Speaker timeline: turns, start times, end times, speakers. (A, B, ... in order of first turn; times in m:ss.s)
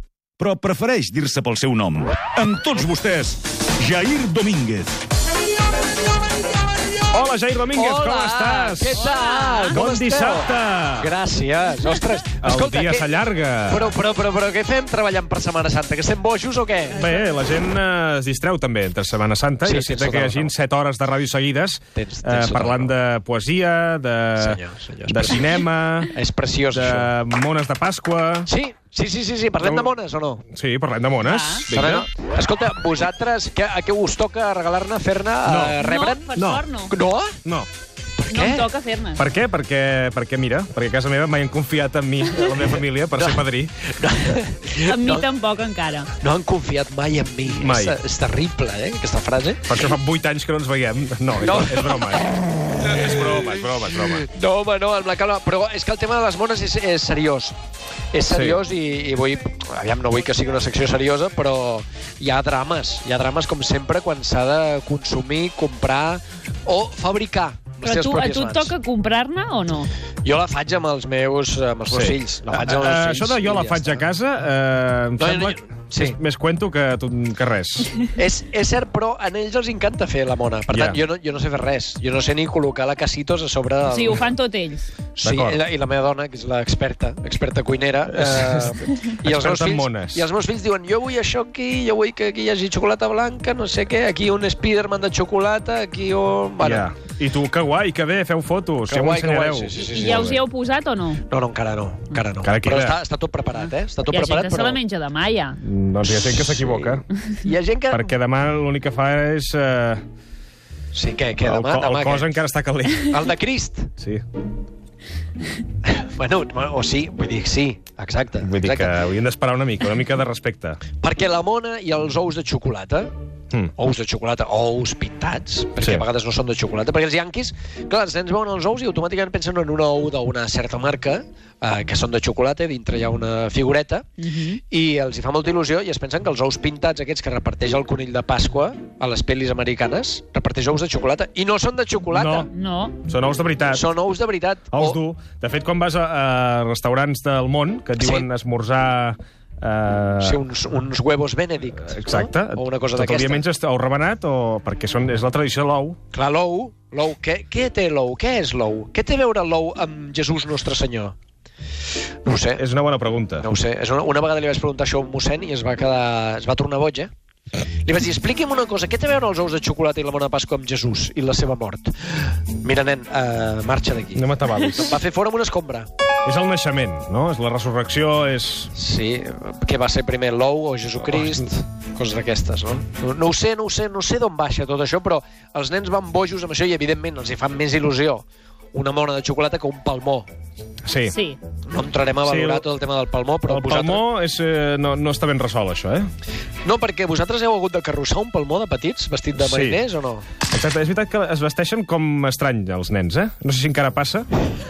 0:00.4-0:05.0 A
0:07.1-0:09.1 B
0:07.7-0:13.1 C
0:08.9-0:09.8 D
0:09.7-0:11.1 B
0:12.4-0:13.9 B
0:13.7-0:17.1 C
0:16.9-0:26.1 B
0:19.6-0:20.5 C
0:21.9-0:22.9 C
0:24.4-0:25.5 C
0:26.1-0:27.1 C
0:26.7-0:28.5 B
0:28.5-0:30.4 C
0:29.6-0:30.0 B
0:30.5-0:32.1 B
0:31.2-0:31.7 D
0:31.7-0:36.3 C
0:35.4-0:35.8 B
0:35.8-0:36.9 D
0:36.3-0:36.6 B
0:36.9-0:37.4 C
0:37.4-0:37.7 B
0:38.2-0:38.7 C
0:38.3-0:39.2 D
0:39.2-0:43.8 B
0:43.1-0:45.3 C
0:44.8-0:46.1 D
0:46.2-0:49.7 C
0:47.5-0:48.0 B
0:49.6-0:54.3 B
0:51.4-0:57.5 C
0:58.1-1:08.7 C
0:58.3-0:58.6 B
1:07.8-1:09.9 D
1:10.2-1:14.0 C
1:11.9-1:17.9 B
1:15.2-1:16.2 C
1:18.1-1:24.3 C
1:20.7-1:21.0 B
1:23.8-1:24.9 D
1:25.2-1:36.9 C
1:25.2-1:25.6 B
1:28.1-1:30.3 B
1:36.6-1:40.4 B
1:38.9-1:40.3 C
1:39.9-1:41.2 D
1:41.3-1:44.8 C
1:42.4-1:43.0 B
1:44.1-1:45.6 D
1:45.6-1:47.0 B
1:46.0-1:48.1 C
1:47.9-1:50.0 B
1:50.9-1:52.3 C
1:51.4-1:53.2 B
1:53.1-1:53.9 C
1:55.8-1:59.0 C
1:58.4-2:00.8 B
2:01.0-2:03.1 C
2:03.8-2:22.5 C
2:14.2-2:14.6 D
2:22.1-2:22.5 B
2:22.5-2:23.0 D
2:23.0-2:23.8 B
2:23.7-2:25.0 C
2:24.7-2:30.4 B
2:28.0-2:28.3 C
2:30.2-2:33.4 C
2:31.8-2:36.0 B
2:36.1-2:41.1 C
2:42.2-2:42.6 C
2:42.6-2:43.5 B
2:43.4-2:47.1 C
2:47.8-2:55.9 C
2:54.1-2:55.0 B
2:56.2-2:58.7 B
2:58.7-3:10.3 C
3:01.1-3:01.5 B
3:10.8-3:11.1 B
3:11.1-3:11.4 D
3:11.7-3:14.0 C
3:12.2-3:12.6 B
3:13.4-3:16.1 B
3:16.6-3:20.3 C
3:19.4-3:19.8 B
3:20.4-3:24.3 B